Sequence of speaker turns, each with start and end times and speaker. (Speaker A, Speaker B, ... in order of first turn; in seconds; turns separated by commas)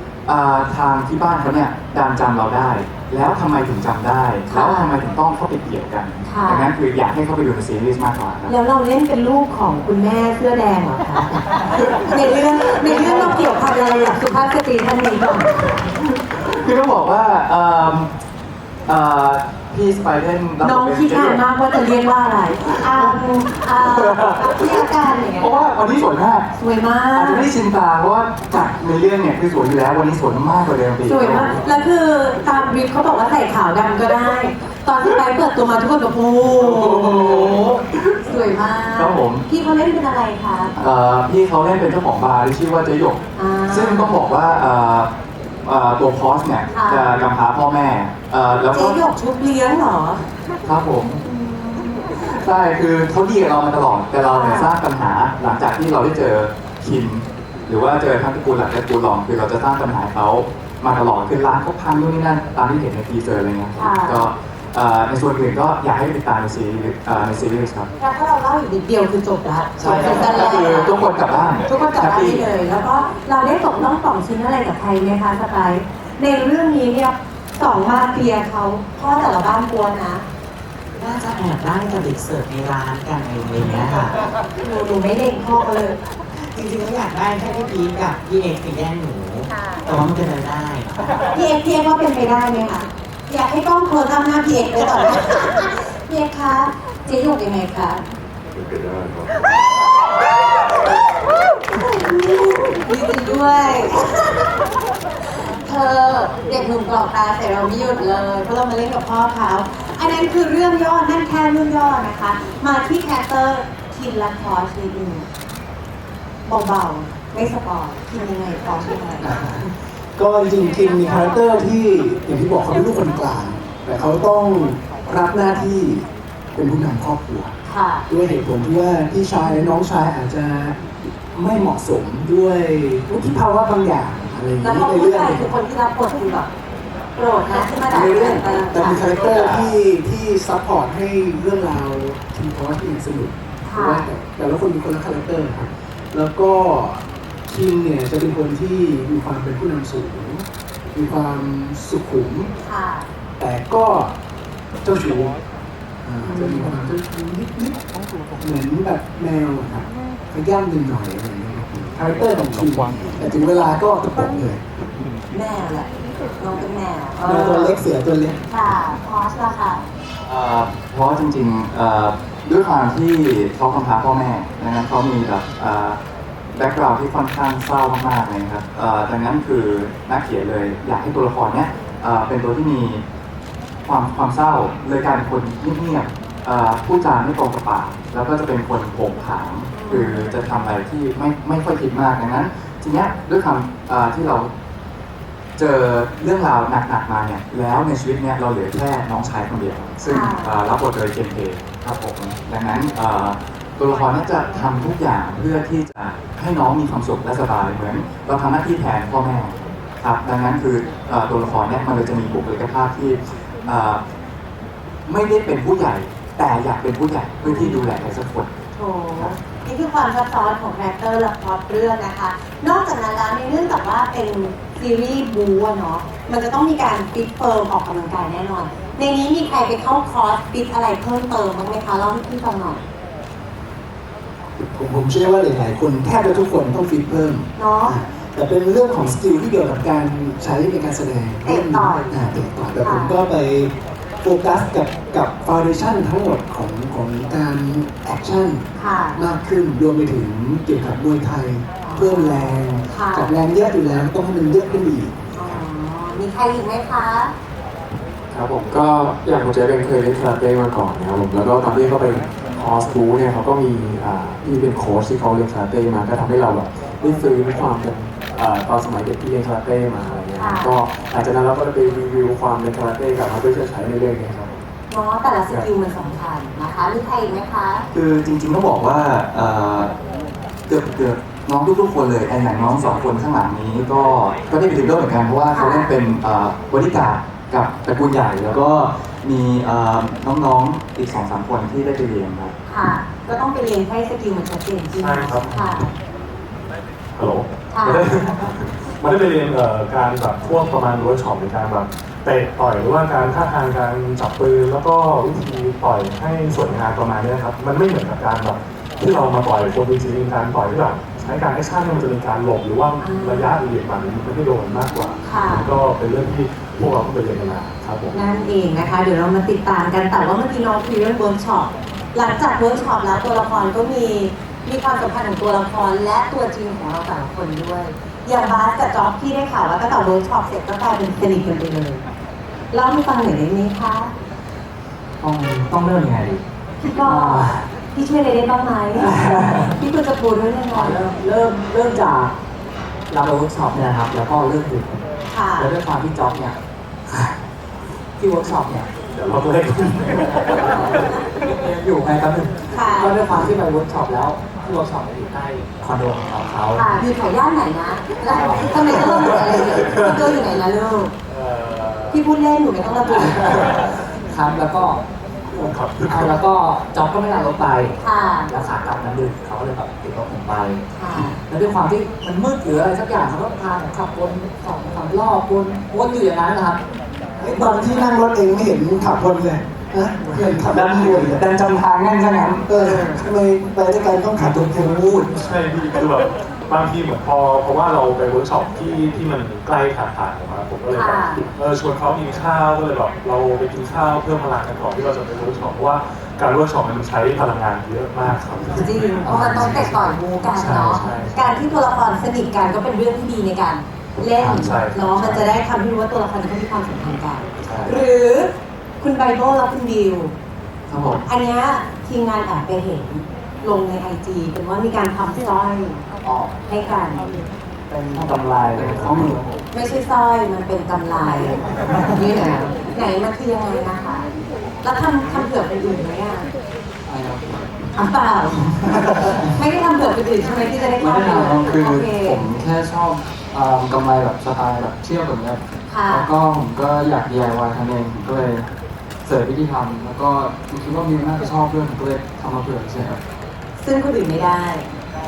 Speaker A: 0.3-8.5, Speaker B: 4.5-4.9, Speaker B: 6.3-6.7, Speaker B: 8.5-15.7, Speaker A: 11.8-13.9, Speaker A: 16.0-18.1, Speaker A: 18.9-21.4, Speaker B: 20.6-25.6, Speaker A: 22.7-23.2, Speaker A: 23.7-26.5, Speaker B: 26.6-27.5, Speaker A: 27.1-31.6, Speaker B: 31.1-37.6, Speaker A: 36.6-38.2, Speaker B: 38.2-40.7, Speaker A: 39.0-39.4, Speaker A: 40.8-45.1, Speaker B: 43.4-44.2, Speaker A: 45.6-49.0, Speaker B: 46.7-47.1, Speaker B: 48.7-50.3, Speaker A: 50.6-51.2, Speaker B: 51.2-52.1, Speaker A: 52.1-67.9, Speaker B: 54.3-54.7, Speaker B: 63.8-64.3, Speaker B: 68.0-70.9, Speaker A: 69.8-72.5, Speaker B: 71.7-80.2, Speaker B: 84.5-86.0, Speaker B: 91.3-98.0, Speaker B: 101.7-104.5, Speaker B: 105.6-115.3, Speaker B: 116.5-119.3, Speaker C: 119.2-127.5, Speaker B: 127.7-128.1, Speaker C: 128.1-130.8, Speaker B: 129.4-129.7, Speaker C: 131.3-135.5, Speaker B: 134.6-136.5, Speaker B: 137.2-139.0, Speaker C: 137.8-152.5, Speaker B: 143.7-144.1, Speaker B: 152.6-153.1, Speaker C: 153.4-154.1, Speaker C: 154.8-155.4, Speaker C: 156.0-157.8, Speaker B: 156.3-156.8, Speaker C: 158.4-164.6, Speaker B: 165.3-167.8, Speaker C: 167.2-168.4, Speaker B: 168.5-169.8, Speaker A: 170.2-176.0, Speaker A: 176.6-183.0, Speaker A: 183.8-194.5, Speaker B: 189.7-190.2, Speaker A: 195.6-214.0, Speaker B: 200.1-200.6, Speaker A: 215.1-218.5, Speaker B: 217.4-217.8, Speaker B: 218.8-232.8, Speaker C: 234.7-255.2, Speaker B: 237.6-238.0, Speaker B: 241.4-242.2, Speaker B: 242.8-243.2, Speaker B: 248.8-249.2, Speaker B: 251.8-253.3, Speaker B: 255.3-257.3, Speaker D: 258.3-274.5, Speaker B: 270.4-270.8, Speaker B: 274.9-277.9, Speaker A: 277.9-279.9, Speaker A: 280.7-292.6, Speaker B: 285.5-285.9, Speaker B: 292.7-295.9, Speaker E: 294.9-295.8, Speaker E: 297.1-318.2, Speaker B: 297.7-298.2, Speaker B: 313.0-313.6, Speaker B: 315.2-315.7, Speaker B: 318.1-332.0, Speaker B: 332.7-334.1, Speaker F: 335.2-336.4, Speaker B: 336.8-339.1, Speaker F: 337.0-337.6, Speaker F: 339.0-339.7, Speaker B: 339.7-341.0, Speaker F: 340.7-342.3, Speaker F: 343.1-345.1, Speaker B: 345.3-345.7, Speaker F: 345.6-346.6, Speaker F: 348.2-357.0, Speaker E: 349.1-351.0, Speaker B: 352.7-353.2, Speaker B: 356.7-361.1, Speaker F: 358.2-360.2, Speaker E: 361.3-362.1, Speaker B: 362.1-363.7, Speaker E: 363.6-364.0, Speaker F: 364.3-365.0, Speaker E: 365.5-366.4, Speaker F: 366.0-370.8, Speaker B: 368.0-368.5, Speaker B: 370.9-371.4, Speaker F: 371.4-376.8, Speaker C: 377.4-381.5, Speaker A: 380.6-382.8, Speaker C: 382.7-385.4, Speaker B: 382.8-383.2, Speaker A: 384.4-385.0, Speaker E: 385.3-399.8, Speaker B: 390.9-391.4, Speaker B: 398.7-410.3, Speaker F: 399.3-399.9, Speaker E: 400.8-401.4, Speaker E: 404.5-405.1, Speaker A: 410.9-411.2, Speaker B: 411.3-416.0, Speaker B: 416.7-417.3, Speaker F: 417.9-419.4, Speaker A: 418.7-419.5, Speaker B: 419.7-424.3, Speaker B: 424.8-426.5, Speaker A: 427.1-427.4, Speaker B: 427.9-428.7, Speaker B: 429.6-432.4, Speaker A: 431.0-435.6, Speaker B: 435.9-436.3, Speaker A: 436.1-438.7, Speaker A: 439.2-443.2, Speaker B: 443.8-444.9